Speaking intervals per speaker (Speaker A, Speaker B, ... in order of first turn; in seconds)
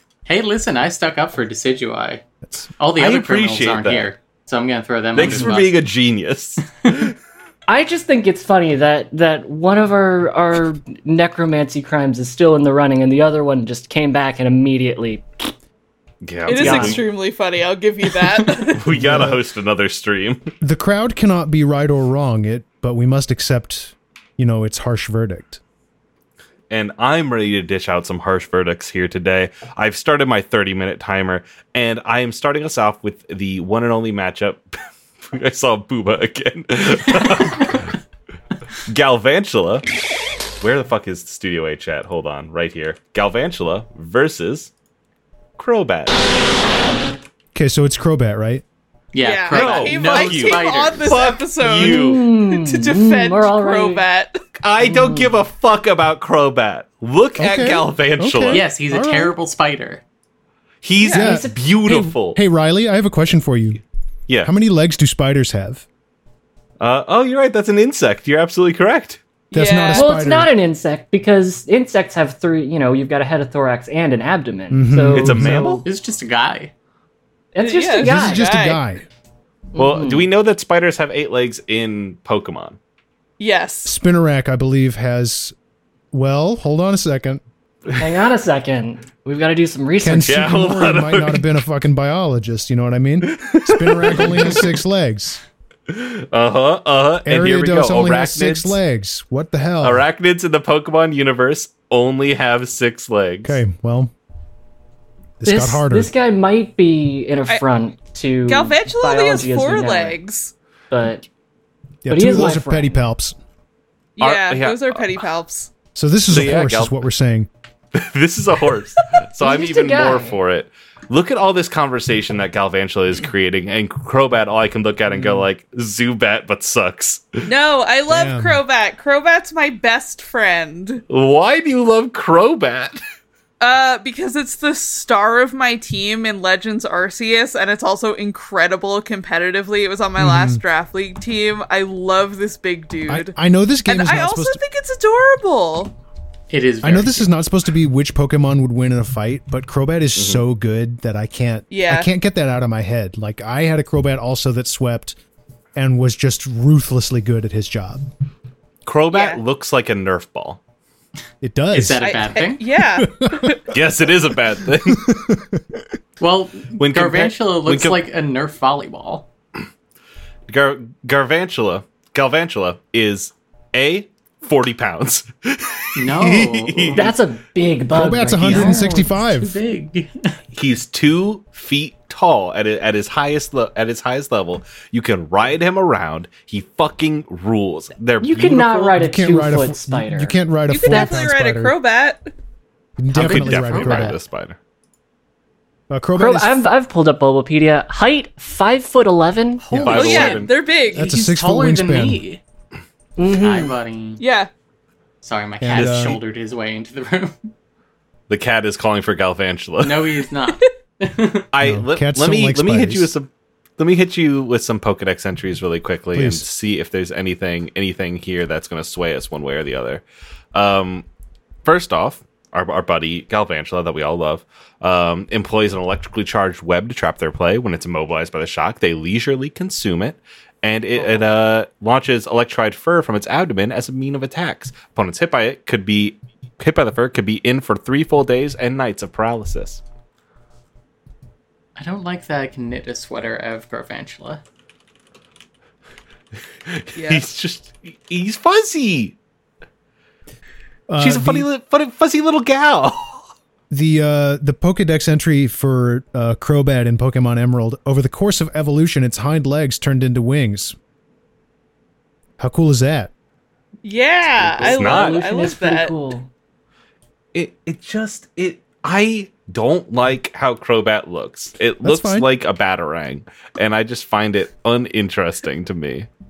Speaker A: 0.3-2.2, 2.8-5.8, 49.1-51.2, 58.5-60.0, 75.8-76.7, 146.5-147.3, 161.7-162.6, 166.2-169.3, 176.0-177.2, 178.3-180.4, 193.1-194.2, 199.6-202.4, 203.3-204.2, 205.2-207.4, 209.8-211.5, 241.8-244.4
Speaker B: 3.0-4.1, 5.2-7.2, 16.2-17.1, 18.7-20.5, 26.7-34.6, 35.2-38.0, 38.9-39.9, 40.6-44.7, 45.6-46.2, 49.5-52.2, 54.5-58.6, 60.8-62.4, 66.8-69.2, 75.1-75.8, 79.8-82.8, 90.2-91.4, 93.2-94.8, 95.9-98.8, 99.8-103.6, 114.2-115.2, 116.3-117.0, 117.9-127.5, 131.1-133.0, 150.2-150.4, 158.8-160.6, 163.7-165.1, 166.8-168.0, 170.5-177.0, 180.5-189.0, 193.1-194.6, 199.8-200.6, 205.8-206.1, 208.3-210.1, 211.5-221.1, 221.7-239.8, 246.7-249.2, 251.0-253.3, 264.4-265.2, 267.3-276.1
Speaker C: 7.7-15.5, 16.5-17.1, 51.7-54.1, 54.8-55.3, 61.0-61.7, 69.9-75.8, 77.5-78.5, 79.7-80.3, 88.0-90.6, 105.4-110.2, 110.9-111.2, 112.1-113.0, 119.4-120.4, 176.9-179.1, 188.2-190.4, 196.2-199.7, 203.2-203.8, 264.7-266.3
Speaker D: 16.5-19.0, 49.2-54.4, 61.0-61.3, 69.5-70.1, 77.6-78.8, 83.4-83.9, 108.5-110.5, 114.2-115.7, 127.5-131.0, 133.6-143.3, 143.9-145.9, 151.7-152.1, 159.1-159.4, 162.0-163.7, 190.7-192.3, 199.9-201.1, 204.2-204.5, 247.0-247.3, 263.8-265.9
Speaker E: 18.9-19.4, 20.6-25.6, 47.5-48.6, 57.4-59.4, 61.2-63.8, 64.4-65.8, 69.5-70.5, 74.7-75.9, 78.0-79.0, 83.8-85.5, 86.1-88.0, 90.0-95.4, 97.2-100.1, 103.4-104.1, 105.4-106.1, 112.0-113.4, 116.0-117.5, 128.1-128.6, 140.2-140.6, 143.1-144.6, 146.8-155.2, 155.8-158.1, 161.4-162.3, 163.0-163.6, 164.6-165.6, 177.9-179.6, 189.0-191.7, 193.0-194.2, 195.9-196.6, 199.7-200.1, 200.9-202.2, 205.6-206.2, 211.6-213.1, 216.1-216.4, 250.9-251.5, 253.7-260.8, 262.4-263.1, 271.8-272.3